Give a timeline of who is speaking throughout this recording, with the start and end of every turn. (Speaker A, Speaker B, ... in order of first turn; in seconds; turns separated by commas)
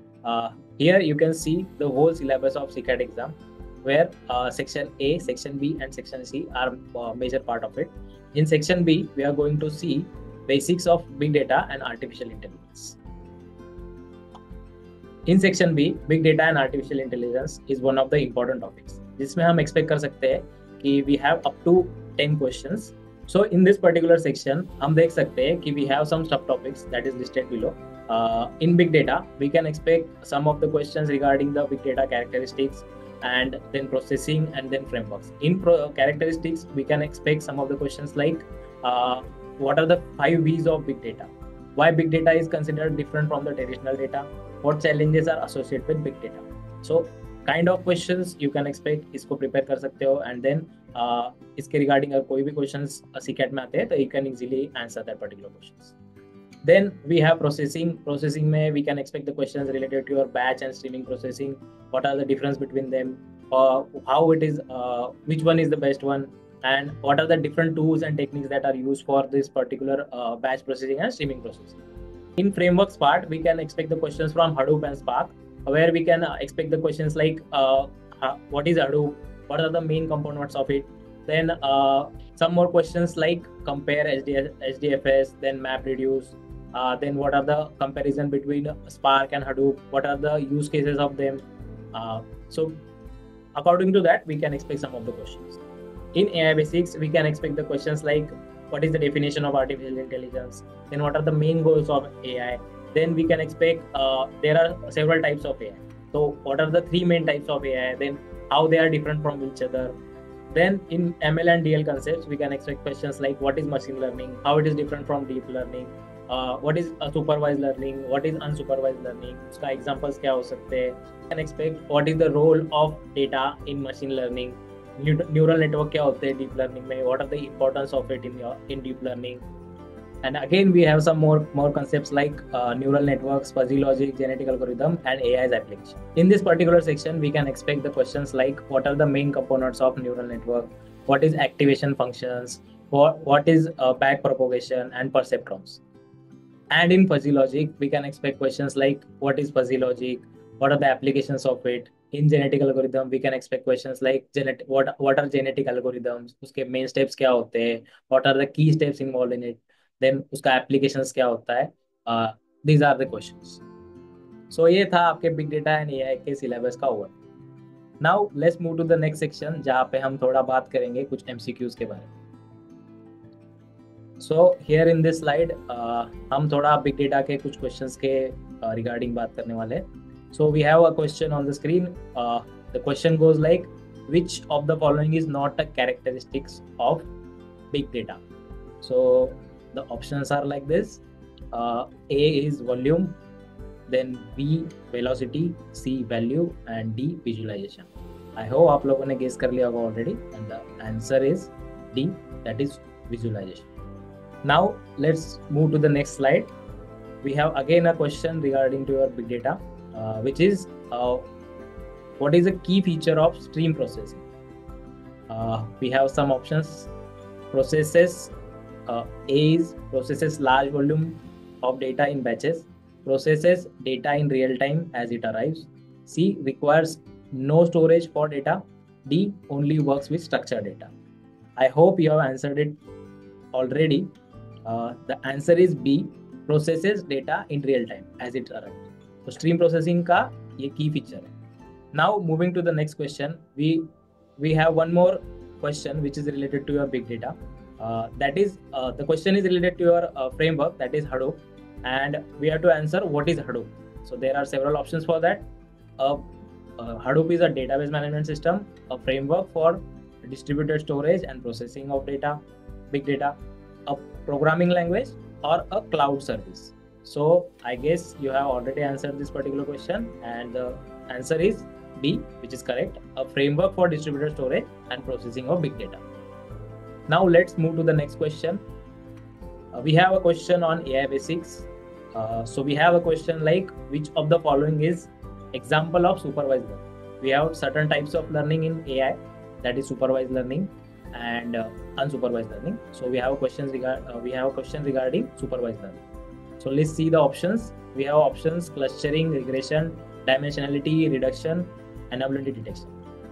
Speaker A: 0.2-13.0, Speaker A: 15.2-55.9, Speaker A: 56.6-71.8, Speaker A: 72.4-92.8, Speaker A: 93.5-95.6, Speaker A: 96.1-110.0, Speaker A: 110.5-129.4, Speaker A: 130.2-145.8, Speaker A: 146.7-163.6, Speaker A: 164.5-167.1, Speaker A: 168.0-172.1, Speaker A: 174.2-187.1, Speaker A: 187.7-188.2, Speaker A: 188.8-193.2, Speaker A: 193.9-203.7, Speaker A: 204.4-206.5, Speaker A: 207.2-211.3, Speaker A: 212.2-214.2, Speaker A: 215.3-216.9, Speaker A: 217.5-218.3, Speaker A: 218.9-230.9, Speaker A: 231.6-232.8, Speaker A: 233.5-234.1, Speaker A: 234.7-241.3, Speaker A: 241.9-255.5, Speaker A: 256.0-262.4, Speaker A: 262.9-276.0, Speaker A: 277.1-278.6, Speaker A: 279.7-296.0, Speaker A: 296.6-302.9